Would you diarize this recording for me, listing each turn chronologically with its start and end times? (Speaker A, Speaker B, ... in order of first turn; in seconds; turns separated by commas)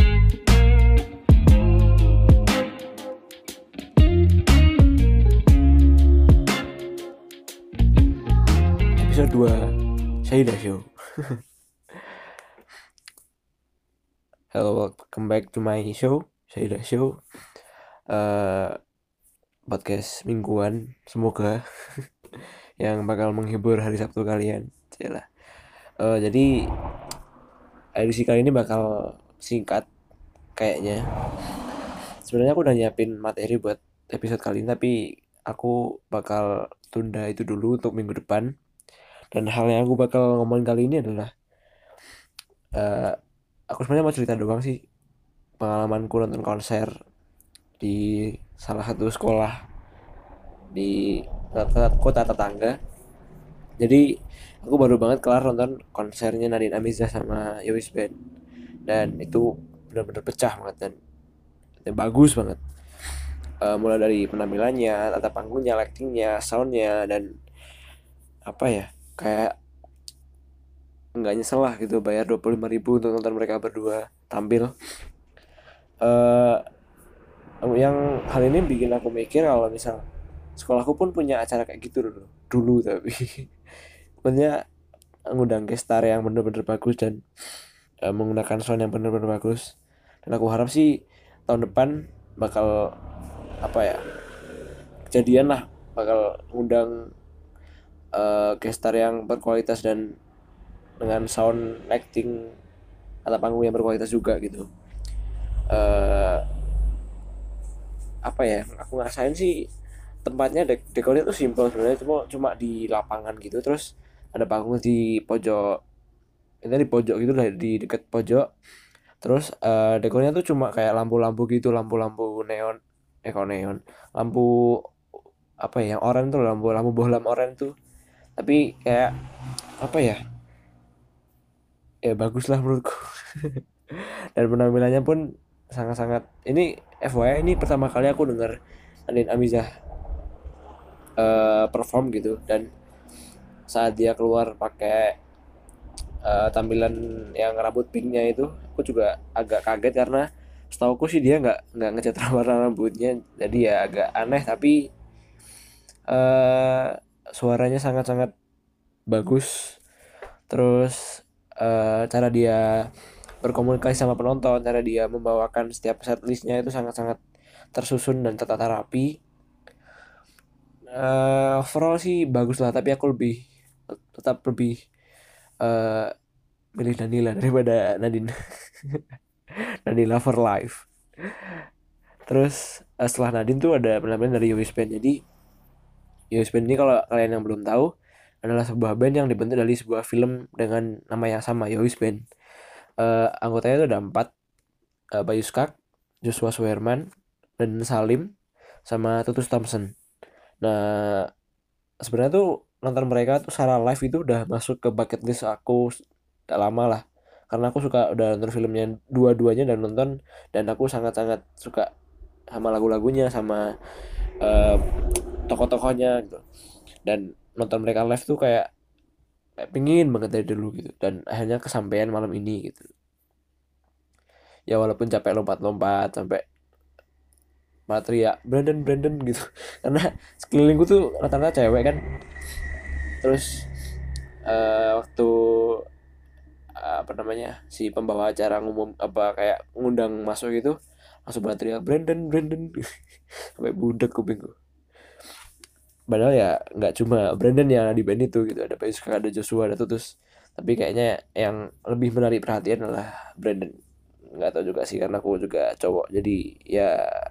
Speaker A: 9.0-9.6, Speaker A: 10.2-11.4, Speaker A: 14.5-17.1, Speaker A: 18.1-18.8, Speaker A: 19.7-21.6, Speaker A: 22.8-25.2, Speaker A: 26.0-26.5, Speaker A: 28.0-28.9, Speaker A: 29.4-29.9, Speaker A: 30.6-31.0, Speaker A: 32.3-34.9, Speaker A: 35.5-38.5, Speaker A: 39.3-41.3, Speaker A: 42.8-43.1, Speaker A: 43.7-44.7, Speaker A: 45.6-46.9, Speaker A: 48.6-49.5, Speaker A: 51.5-52.8, Speaker A: 54.6-58.2, Speaker A: 58.9-60.9, Speaker A: 61.9-62.6, Speaker A: 63.6-67.3, Speaker A: 68.5-69.5, Speaker A: 71.2-74.7, Speaker A: 76.0-76.6, Speaker A: 77.7-80.0, Speaker A: 80.6-83.3, Speaker A: 84.2-84.5, Speaker A: 85.3-87.2, Speaker A: 88.1-89.6, Speaker A: 90.3-90.9, Speaker A: 91.5-92.7, Speaker A: 93.6-94.0, Speaker A: 95.1-96.9, Speaker A: 98.2-100.0, Speaker A: 101.0-102.3, Speaker A: 103.3-104.6, Speaker A: 105.7-106.4, Speaker A: 108.3-109.5, Speaker A: 110.2-115.6, Speaker A: 116.6-118.5, Speaker A: 119.2-124.5, Speaker A: 125.6-127.7, Speaker A: 128.4-129.1, Speaker A: 129.8-130.2, Speaker A: 132.1-133.6, Speaker A: 134.4-135.2, Speaker A: 135.8-138.5, Speaker A: 139.1-139.7, Speaker A: 141.2-142.6, Speaker A: 143.7-145.1, Speaker A: 146.3-154.8, Speaker A: 156.1-158.3, Speaker A: 159.1-159.8, Speaker A: 160.5-161.0, Speaker A: 161.6-162.6, Speaker A: 163.4-167.2, Speaker A: 167.7-169.1, Speaker A: 171.0-173.4, Speaker A: 174.1-174.7, Speaker A: 175.6-176.1, Speaker A: 176.8-179.1, Speaker A: 179.9-181.6, Speaker A: 182.3-185.2, Speaker A: 186.3-187.9, Speaker A: 188.4-192.2, Speaker A: 193.0-194.3, Speaker A: 195.2-197.0, Speaker A: 197.6-198.2, Speaker A: 198.9-199.9, Speaker A: 200.6-201.2, Speaker A: 202.1-205.8, Speaker A: 206.5-211.9, Speaker A: 212.5-213.6, Speaker A: 214.4-214.8, Speaker A: 215.5-216.4, Speaker A: 217.1-218.7, Speaker A: 219.6-222.9, Speaker A: 224.7-226.4, Speaker A: 227.9-232.0, Speaker A: 233.2-233.5, Speaker A: 234.5-235.8, Speaker A: 236.8-240.8, Speaker A: 241.3-242.8, Speaker A: 243.6-244.5, Speaker A: 246.1-250.1, Speaker A: 250.6-253.7, Speaker A: 254.4-257.0